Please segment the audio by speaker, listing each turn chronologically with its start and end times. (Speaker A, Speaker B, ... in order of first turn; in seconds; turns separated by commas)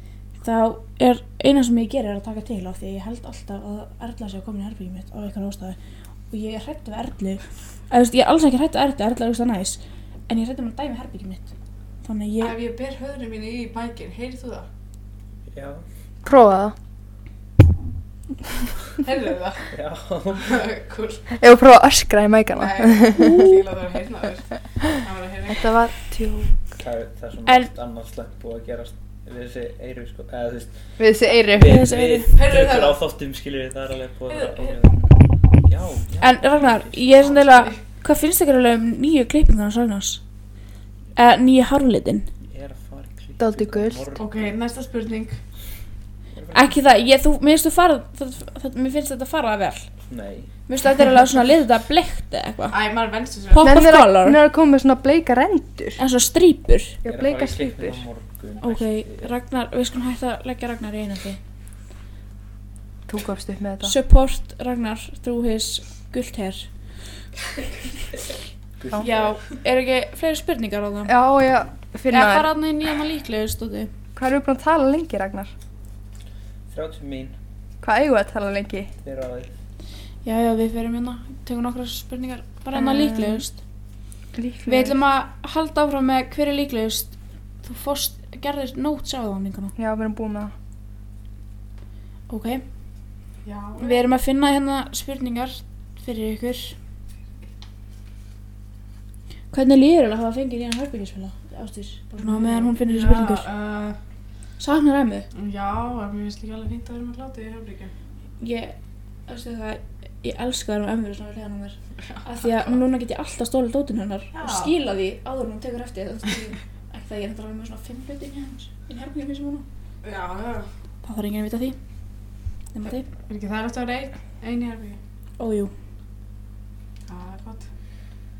Speaker A: 0.4-5.8, Speaker A: 6.3-11.5, Speaker A: 12.0-12.5, Speaker B: 12.4-14.7, Speaker C: 15.5-15.8, Speaker D: 16.2-16.7, Speaker B: 19.0-19.7, Speaker C: 19.7-20.6, Speaker B: 20.4-21.3, Speaker D: 21.4-23.5, Speaker B: 22.6-25.8, Speaker A: 23.1-23.6, Speaker D: 25.5-26.6, Speaker C: 26.7-30.9, Speaker D: 31.0-31.8, Speaker C: 31.5-37.4, Speaker A: 31.6-32.4, Speaker B: 32.3-33.0, Speaker B: 34.3-34.8, Speaker A: 36.2-40.2, Speaker B: 37.3-37.8, Speaker A: 41.1-42.3, Speaker C: 42.4-44.5, Speaker D: 43.4-44.0, Speaker B: 44.2-45.4, Speaker C: 46.3-46.7, Speaker A: 46.5-49.9, Speaker C: 50.1-50.5, Speaker A: 50.7-52.8, Speaker B: 52.7-53.8, Speaker A: 53.5-54.4, Speaker D: 53.6-56.0, Speaker A: 56.0-57.0, Speaker D: 57.0-58.0, Speaker C: 57.0-59.3, Speaker A: 58.6-61.4, Speaker D: 63.1-63.9, Speaker A: 63.8-66.7, Speaker C: 68.8-69.3, Speaker A: 69.0-71.1, Speaker D: 71.0-72.5, Speaker A: 72.1-73.9, Speaker D: 74.2-75.5, Speaker C: 76.7-77.3, Speaker D: 77.8-78.9, Speaker C: 79.0-79.5, Speaker A: 80.2-83.6, Speaker D: 82.7-83.4, Speaker D: 84.3-85.0, Speaker A: 84.7-89.7, Speaker D: 89.8-90.5, Speaker A: 92.3-92.6, Speaker B: 93.4-94.0, Speaker A: 93.8-96.8, Speaker A: 99.5-103.5, Speaker B: 102.2-104.0, Speaker A: 104.6-105.3, Speaker B: 105.3-107.9, Speaker A: 108.4-108.7, Speaker A: 109.3-119.6, Speaker B: 112.1-112.8, Speaker B: 114.3-114.7, Speaker B: 120.0-120.7, Speaker A: 121.0-121.8, Speaker A: 122.7-123.0, Speaker B: 123.3-125.0, Speaker A: 125.4-125.7, Speaker B: 127.1-127.6